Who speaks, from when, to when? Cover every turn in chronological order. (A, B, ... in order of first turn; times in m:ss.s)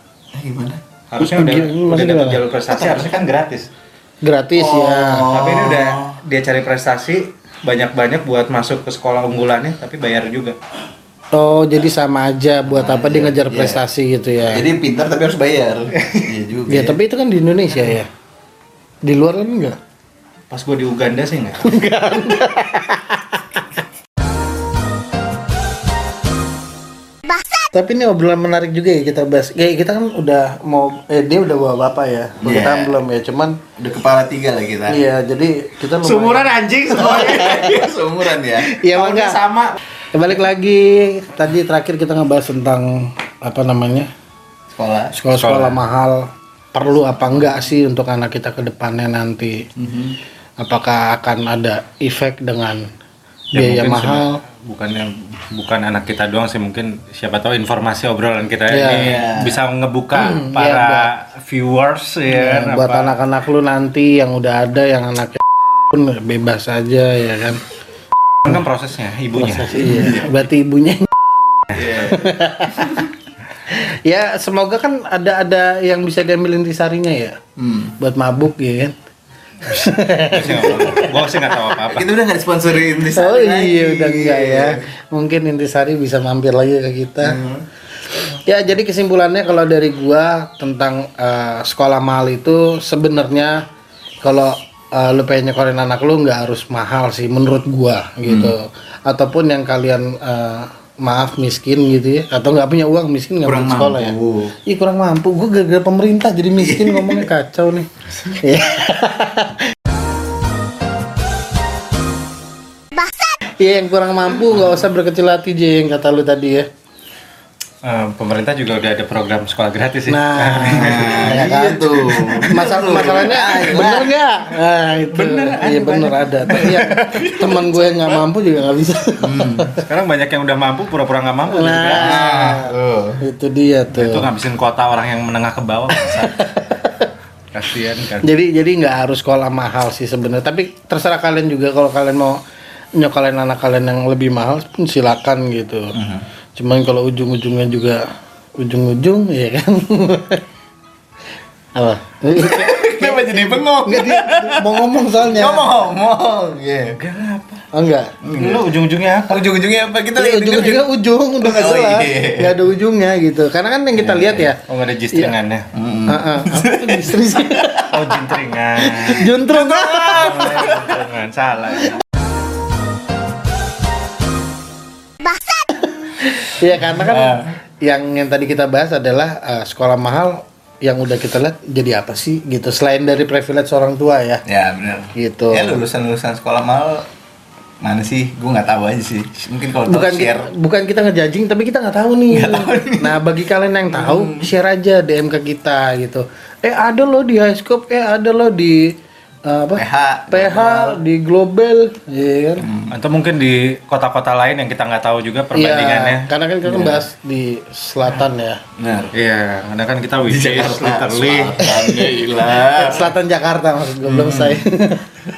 0:00.3-0:00.8 A
0:01.1-0:03.7 B
0:01.2-0:02.4 C
0:02.7-0:03.2 A
0:04.2-0:05.3 C
0:04.6-0:06.2 A
0:05.3-0:10.6 B
0:11.3-0:14.6 C
0:12.6-0:13.8 A
0:14.4-0:17.0 A
0:16.7-0:18.1 C
0:19.0-0:19.8 C
0:20.5-0:21.8 B
0:21.6-0:23.6 C
0:27.7-0:33.6 C
0:32.4-0:33.0 A
0:33.8-0:35.0 A
0:34.9-0:36.5 C
0:36.0-0:37.7 B
0:36.9-0:38.7 A
0:37.2-0:37.8 C
0:38.7-0:39.4 C
0:38.9-0:39.8 B
0:40.1-0:44.1 C
0:44.7-0:45.2 A
0:45.1-0:49.6 C
0:45.3-0:45.8 B
0:49.8-0:50.2 A
0:50.6-0:52.9 C
0:53.5-0:54.4 C
0:53.5-1:03.1 B
0:58.7-0:59.2 C
0:59.0-0:59.6 A
1:00.1-1:01.1 C
1:02.3-1:07.6 C
1:08.4-1:10.1 B
1:09.4-1:11.1 C
1:09.8-1:10.3 A
1:11.7-1:13.1 A
1:12.0-1:12.9 C
1:13.7-1:17.4 C
1:17.6-1:18.0 A
1:18.0-1:18.9 C
1:19.6-1:21.7 C
1:20.3-1:22.1 B
1:21.9-1:24.8 A
1:23.1-1:27.4 C
1:27.2-1:27.6 A
1:28.3-1:33.6 C
1:34.2-1:49.7 C
1:38.2-1:38.6 A
1:43.4-1:44.6 A
1:46.6-1:47.2 A
1:53.4-1:56.7 C
1:57.8-2:01.4 B
2:00.1-2:09.8 C
2:00.6-2:04.1 A
2:05.1-2:07.2 B
2:06.5-2:07.5 A
2:09.2-2:09.7 A
2:09.8-2:12.3 B
2:11.5-2:14.3 C
2:11.9-2:13.2 A
2:13.9-2:16.4 B
2:15.9-2:17.1 C
2:17.5-2:18.3 B
2:18.2-2:22.4 C
2:23.0-2:25.9 C
2:26.6-2:28.0 C
2:28.6-2:30.4 C
2:31.7-2:35.7 C
2:32.3-2:37.0 A
2:37.0-2:37.6 B
2:37.7-2:38.1 C
2:38.2-2:38.6 A
2:38.3-2:39.4 B
2:39.3-2:40.8 A
2:40.2-2:44.6 C
2:41.4-2:42.6 A
2:44.0-2:45.7 B
2:45.7-2:47.8 A
2:46.1-2:50.9 C
2:47.9-2:49.4 B
2:49.4-2:50.9 A
2:49.9-2:52.0 B
2:55.7-3:04.4 C
2:57.0-2:57.6 A
3:04.4-3:07.1 A
3:05.1-3:05.8 C
3:07.8-3:10.5 A
3:09.8-3:18.9 C
3:12.3-3:13.2 A
3:14.0-3:14.4 B
3:19.4-3:22.6 C
3:19.8-3:21.0 A
3:22.6-3:22.9 A
3:22.9-3:26.3 B
3:25.5-3:28.6 C
3:26.6-3:27.0 A
3:28.8-3:29.1 A
3:29.1-3:31.7 B
3:30.2-3:33.1 A
3:31.7-3:35.2 C
3:34.1-3:34.6 A